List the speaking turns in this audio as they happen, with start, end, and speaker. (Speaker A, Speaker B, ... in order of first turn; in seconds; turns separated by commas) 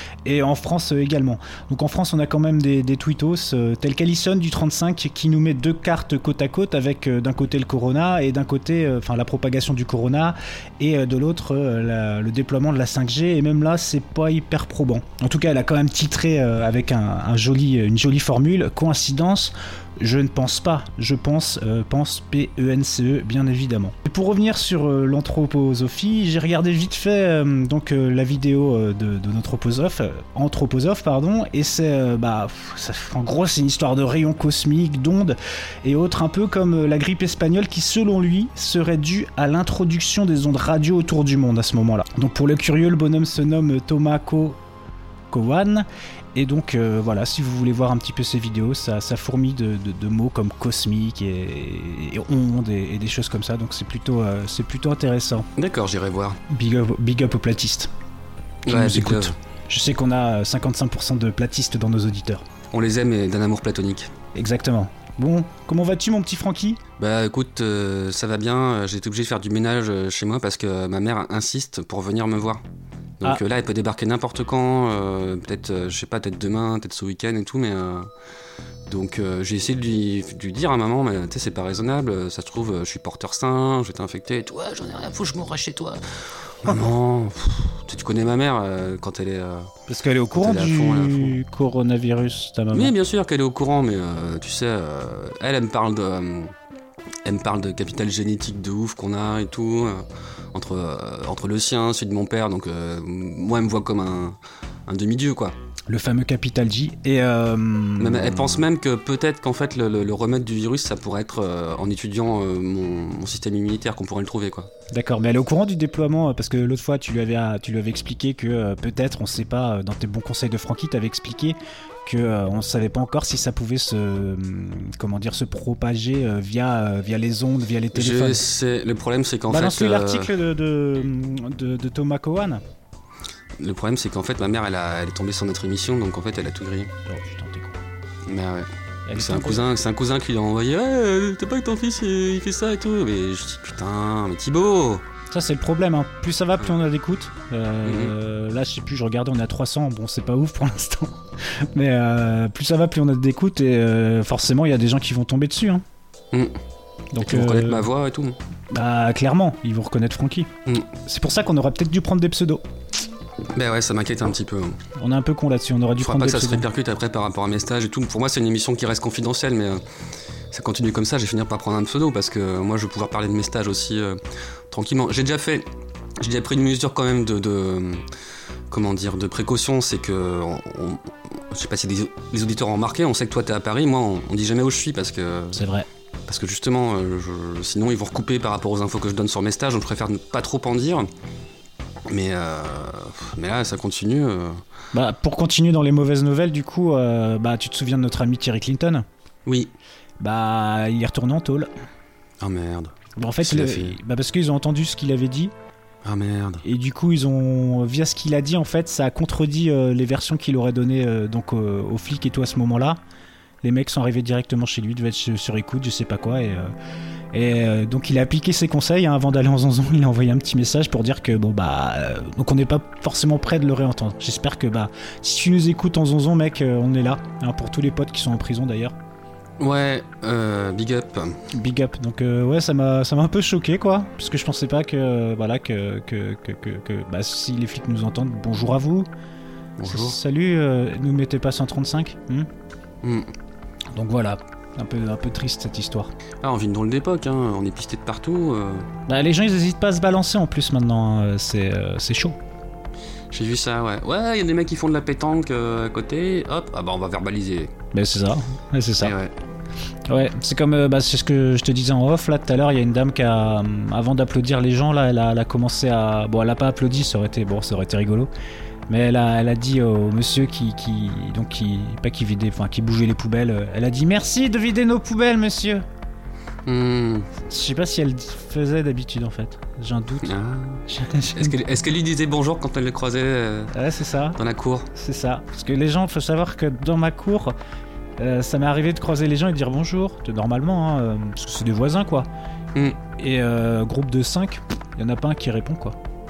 Speaker A: 0.2-44.6, Speaker A: 45.3-55.5, Speaker B: 55.6-56.4, Speaker A: 56.5-57.9, Speaker B: 58.7-59.4, Speaker A: 58.7-62.4, Speaker B: 62.7-64.1, Speaker A: 64.3-66.8, Speaker B: 67.0-72.6, Speaker B: 73.2-78.1, Speaker B: 78.9-86.0, Speaker B: 86.6-89.7, Speaker A: 89.9-92.9, Speaker B: 90.3-91.4, Speaker B: 92.7-96.5, Speaker B: 97.2-105.5, Speaker A: 105.9-108.7, Speaker B: 108.0-114.7, Speaker A: 114.9-128.5, Speaker B: 127.9-130.3, Speaker A: 129.5-132.6, Speaker B: 133.6-136.9, Speaker A: 137.1-137.8, Speaker B: 138.3-145.0, Speaker A: 139.1-139.7, Speaker A: 145.3-151.2, Speaker B: 147.8-148.1, Speaker A: 151.7-155.8, Speaker A: 157.1-157.9, Speaker B: 157.2-158.4, Speaker A: 158.7-160.5, Speaker A: 161.0-162.6, Speaker B: 163.6-164.8, Speaker A: 165.0-166.7, Speaker B: 166.0-169.8, Speaker B: 170.5-174.2, Speaker B: 174.7-175.7, Speaker B: 176.2-178.0, Speaker B: 178.7-185.6, Speaker A: 185.5-185.9, Speaker B: 186.3-191.1, Speaker B: 192.1-194.6, Speaker A: 194.9-199.1, Speaker B: 199.5-199.7, Speaker A: 200.2-201.7, Speaker B: 202.4-204.0, Speaker A: 203.2-205.5, Speaker B: 206.0-206.7, Speaker A: 206.6-213.0, Speaker A: 213.6-216.7, Speaker A: 217.3-228.9, Speaker B: 229.6-231.3, Speaker A: 231.5-239.1, Speaker B: 239.8-240.2, Speaker A: 239.8-242.5, Speaker B: 243.0-243.3, Speaker A: 243.9-246.1, Speaker B: 246.4-248.9, Speaker A: 249.1-252.4, Speaker B: 253.3-257.7, Speaker A: 257.9-259.1, Speaker B: 259.0-259.3, Speaker A: 260.1-268.3, Speaker A: 268.9-275.8, Speaker B: 276.7-277.3, Speaker A: 277.5-280.4, Speaker B: 280.2-283.7, Speaker A: 280.9-281.6, Speaker A: 283.7-284.4, Speaker B: 284.4-284.9, Speaker A: 284.9-287.5, Speaker A: 288.2-292.3, Speaker A: 293.2-296.0